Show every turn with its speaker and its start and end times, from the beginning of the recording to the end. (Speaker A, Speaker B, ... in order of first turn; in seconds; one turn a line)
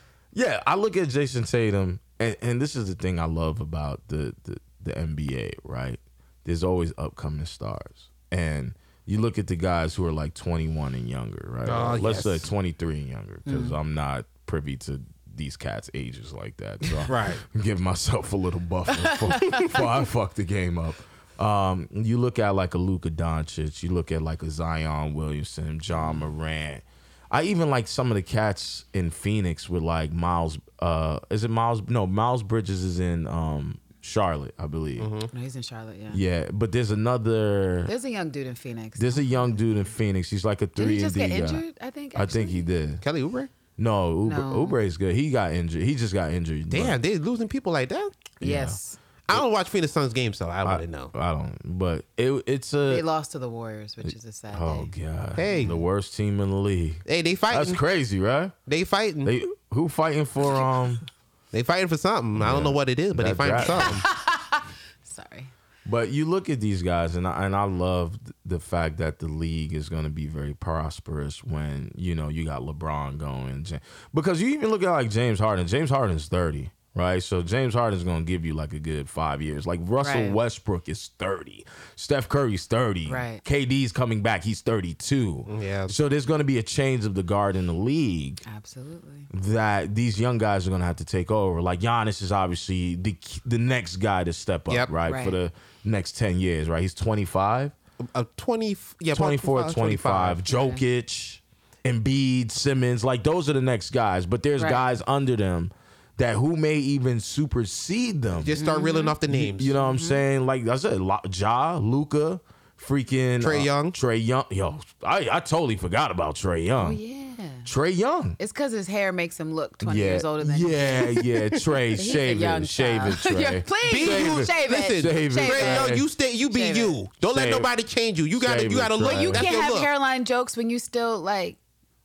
Speaker A: 0.3-35.1
Speaker B: 11.6-12.5
Speaker C: 13.4-13.7
Speaker B: 17.1-17.4
Speaker C: 19.0-19.8
Speaker B: 35.0-35.3
Speaker C: 35.3-36.2
Speaker A: 36.1-37.9
Speaker C: 37.9-39.6
Speaker A: 39.0-41.6
Speaker C: 40.8-42.6
Speaker A: 42.1-43.0
Speaker B: 43.0-43.5
Speaker A: 43.8-47.0
Speaker C: 44.2-44.8
Speaker B: 46.7-48.3
Speaker A: 48.4-48.8
Speaker C: 48.4-49.0
Speaker B: 49.3-51.1
Speaker A: 50.6-53.0
Speaker C: 52.9-54.9
Speaker A: 54.0-58.5
Speaker B: 55.3-55.8
Speaker C: 55.4-55.8
Speaker B: 57.0-57.8
Speaker B: 58.7-59.3
Speaker A: 59.2-61.0
Speaker B: 61.5-64.0
Speaker A: 62.4-64.0
Speaker C: 63.6-65.5
Speaker A: 65.8-88.4
Speaker C: 80.0-80.4
Speaker C: 83.0-83.4
Speaker B: 85.5-85.9
Speaker C: 88.5-89.3
Speaker A: 89.3-97.7
Speaker C: 95.0-95.4
Speaker B: 98.1-100.5
Speaker A: 99.1-108.6
Speaker B: 108.3-109.7
Speaker C: 108.6-109.2
Speaker A: 109.3-117.0
Speaker C: 109.8-110.2
Speaker B: 113.4-114.0
Speaker C: 116.8-117.7
Speaker A: 117.6-118.4
Speaker C: 118.4-121.3
Speaker A: 119.8-126.0
Speaker C: 121.9-126.0
Speaker B: 123.8-129.9
Speaker C: 126.5-127.0
Speaker A: 127.3-127.7
Speaker A: 128.4-129.4
Speaker C: 129.0-131.6